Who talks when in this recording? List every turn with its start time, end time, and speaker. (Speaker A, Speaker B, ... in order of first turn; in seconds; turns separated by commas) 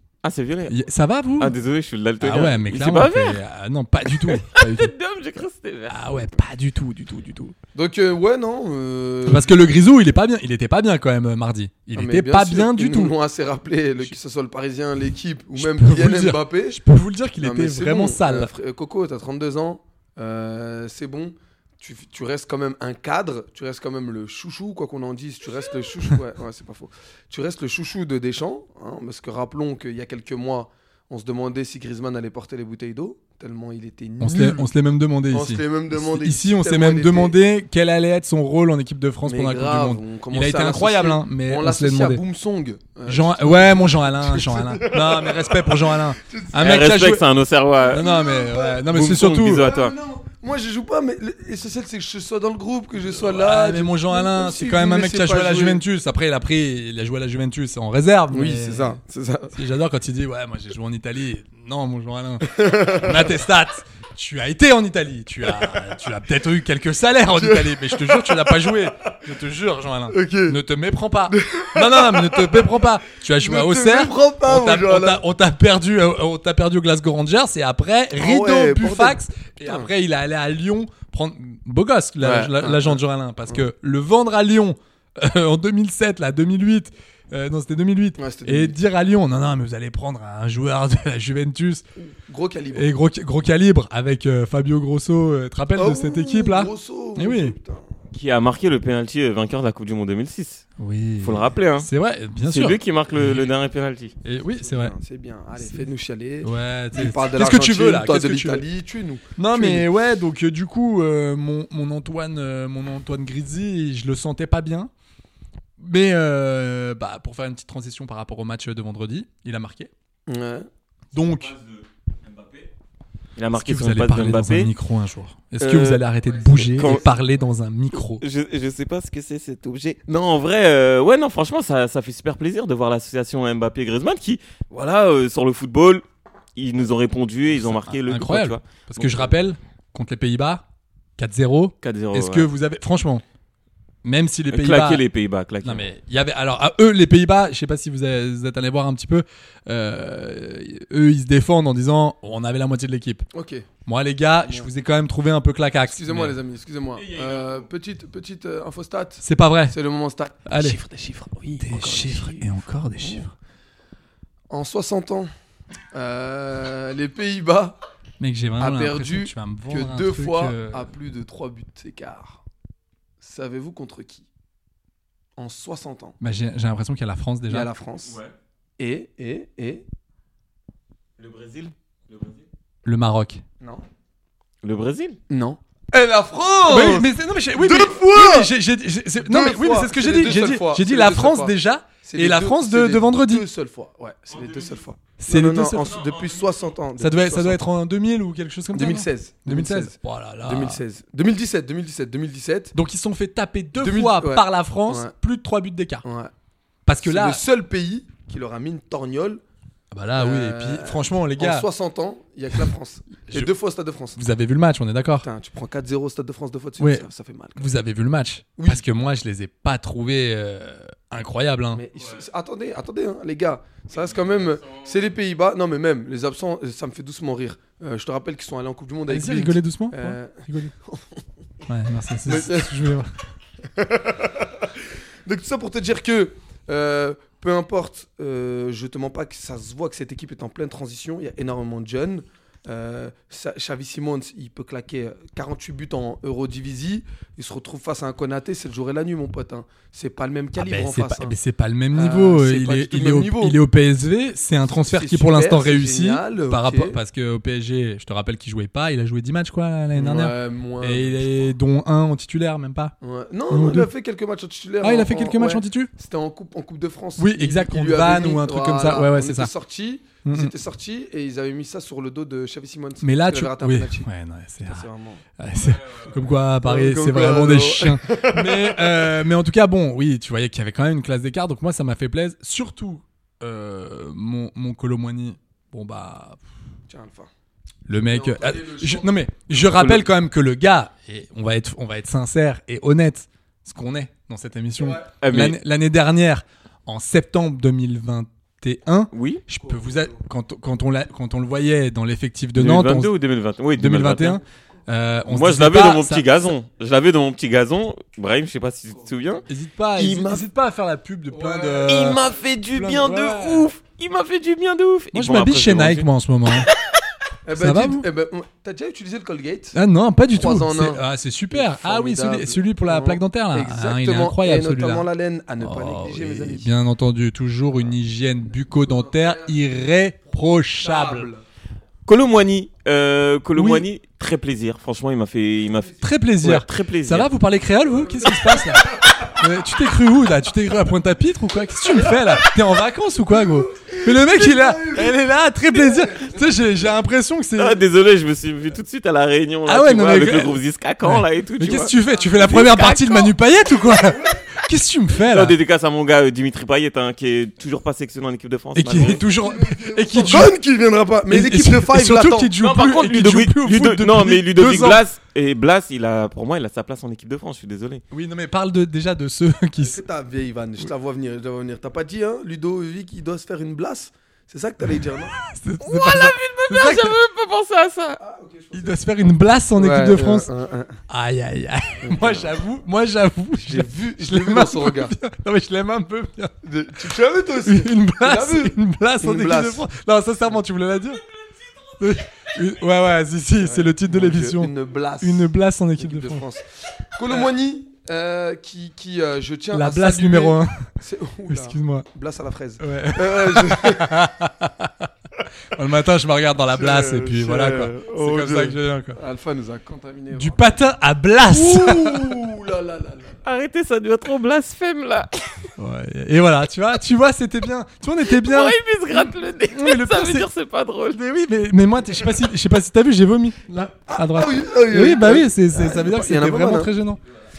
Speaker A: 0.2-0.9, Speaker B: 0.7-1.6, Speaker A: 1.4-3.4, Speaker B: 2.2-4.9, Speaker A: 4.2-6.0, Speaker B: 5.9-7.6, Speaker C: 7.8-9.5, Speaker B: 9.2-13.1, Speaker C: 11.9-16.8, Speaker B: 15.6-18.5, Speaker C: 17.4-34.7, Speaker B: 34.2-42.2, Speaker C: 35.3-37.4, Speaker C: 39.2-46.5, Speaker B: 43.0-47.2, Speaker A: 46.6-48.1, Speaker B: 47.9-49.7, Speaker C: 47.9-48.8, Speaker A: 48.9-50.0, Speaker C: 49.6-55.8, Speaker B: 53.0-59.0, Speaker C: 58.3-59.5, Speaker B: 59.5-91.8, Speaker C: 62.5-63.2, Speaker C: 67.3-68.7, Speaker C: 70.1-70.6, Speaker C: 71.3-72.7, Speaker C: 73.4-75.2, Speaker C: 78.2-79.9, Speaker C: 82.2-83.6, Speaker C: 88.2-88.8, Speaker C: 92.0-92.9, Speaker B: 92.7-97.5, Speaker C: 95.8-97.9, Speaker A: 98.1-100.7, Speaker B: 100.8-103.5, Speaker A: 101.2-101.9, Speaker A: 102.4-104.1, Speaker B: 104.2-105.0, Speaker C: 104.6-109.9, Speaker B: 106.4-108.6, Speaker B: 109.4-114.9, Speaker B: 115.8-119.9, Speaker C: 120.3-120.7, Speaker B: 121.1-121.5, Speaker A: 121.4-122.7, Speaker A: 123.4-124.7, Speaker B: 123.5-128.2, Speaker C: 125.6-126.0, Speaker A: 126.5-127.1, Speaker A: 128.2-136.0, Speaker A: 136.6-139.3, Speaker B: 137.5-140.6, Speaker B: 141.2-143.2, Speaker A: 141.8-142.5, Speaker B: 144.0-145.0, Speaker A: 144.5-145.9, Speaker B: 145.6-153.2, Speaker C: 153.3-153.7, Speaker B: 153.9-156.4, Speaker C: 154.4-154.7, Speaker C: 155.9-163.2, Speaker A: 157.1-157.6, Speaker B: 159.2-159.8, Speaker B: 160.5-160.8, Speaker B: 161.6-163.3, Speaker C: 164.5-165.3, Speaker C: 165.9-167.8, Speaker B: 168.2-170.9, Speaker C: 168.6-172.4, Speaker C: 173.2-174.3, Speaker C: 175.4-176.2, Speaker B: 176.2-177.7, Speaker C: 177.5-178.2, Speaker A: 178.1-178.3, Speaker C: 178.8-179.8, Speaker A: 181.2-182.4, Speaker B: 182.8-183.4, Speaker A: 184.6-185.2, Speaker C: 185.3-188.5, Speaker B: 186.7-193.5, Speaker C: 189.2-197.6, Speaker A: 194.3-194.8, Speaker B: 195.2-196.0, Speaker A: 195.9-196.6, Speaker B: 197.0-200.8, Speaker C: 198.7-202.8, Speaker B: 202.7-206.0, Speaker C: 203.8-205.1, Speaker C: 206.0-206.3, Speaker B: 206.9-207.4, Speaker C: 207.0-209.4, Speaker B: 209.9-211.7, Speaker C: 210.2-214.2, Speaker B: 214.2-215.3, Speaker C: 215.2-217.7, Speaker B: 216.8-221.8, Speaker C: 218.6-218.8, Speaker C: 221.7-231.2, Speaker A: 224.5-224.8, Speaker B: 229.1-230.7, Speaker B: 231.7-233.1, Speaker C: 232.2-232.7, Speaker C: 233.8-234.7, Speaker C: 235.2-251.4, Speaker B: 250.6-262.9, Speaker C: 251.9-253.6, Speaker C: 254.6-257.0, Speaker C: 259.9-261.5, Speaker C: 263.0-274.1, Speaker B: 263.5-263.9, Speaker B: 264.8-265.9, Speaker B: 267.2-269.5, Speaker B: 270.2-270.5, Speaker B: 273.0-274.9, Speaker C: 274.6-275.2, Speaker B: 275.4-286.4, Speaker C: 276.6-279.1, Speaker C: 286.9-287.3, Speaker B: 287.9-303.1, Speaker C: 287.9-289.1, Speaker A: 295.2-295.6, Speaker A: 299.1-299.4, Speaker A: 302.6-304.4, Speaker B: 303.8-306.5, Speaker A: 305.3-309.4, Speaker B: 309.5-313.7, Speaker C: 310.0-310.4, Speaker C: 311.3-312.1, Speaker A: 311.9-316.1, Speaker B: 315.1-316.7, Speaker C: 317.5-319.8, Speaker B: 317.6-318.1, Speaker B: 319.7-325.1, Speaker C: 320.3-326.7, Speaker B: 325.6-331.3, Speaker C: 328.7-329.6, Speaker C: 330.8-331.4, Speaker A: 332.1-337.3, Speaker B: 333.5-333.9, Speaker B: 336.0-347.8, Speaker C: 338.1-338.6, Speaker C: 343.8-345.1, Speaker C: 346.1-346.4, Speaker A: 347.6-353.3, Speaker B: 349.6-355.6, Speaker A: 355.3-359.2, Speaker B: 358.8-360.6, Speaker C: 359.2-362.5, Speaker B: 361.3-365.0, Speaker A: 362.6-368.0, Speaker B: 368.1-370.0, Speaker C: 369.8-375.3, Speaker B: 375.0-377.1, Speaker A: 375.8-378.2, Speaker C: 378.2-379.0, Speaker B: 378.7-380.5, Speaker C: 379.8-381.0, Speaker B: 381.1-386.5, Speaker C: 382.0-382.5, Speaker C: 383.6-385.1, Speaker C: 386.6-389.9, Speaker B: 387.6-391.2, Speaker B: 392.0-396.5, Speaker C: 393.6-404.1, Speaker B: 399.7-400.8, Speaker B: 401.5-402.1, Speaker B: 402.8-405.1, Speaker B: 405.7-409.2, Speaker C: 406.7-410.8, Speaker B: 410.3-412.4, Speaker C: 411.5-413.4, Speaker A: 413.4-415.7, Speaker B: 415.8-420.5, Speaker A: 418.3-421.2, Speaker B: 421.1-427.2, Speaker C: 424.1-426.9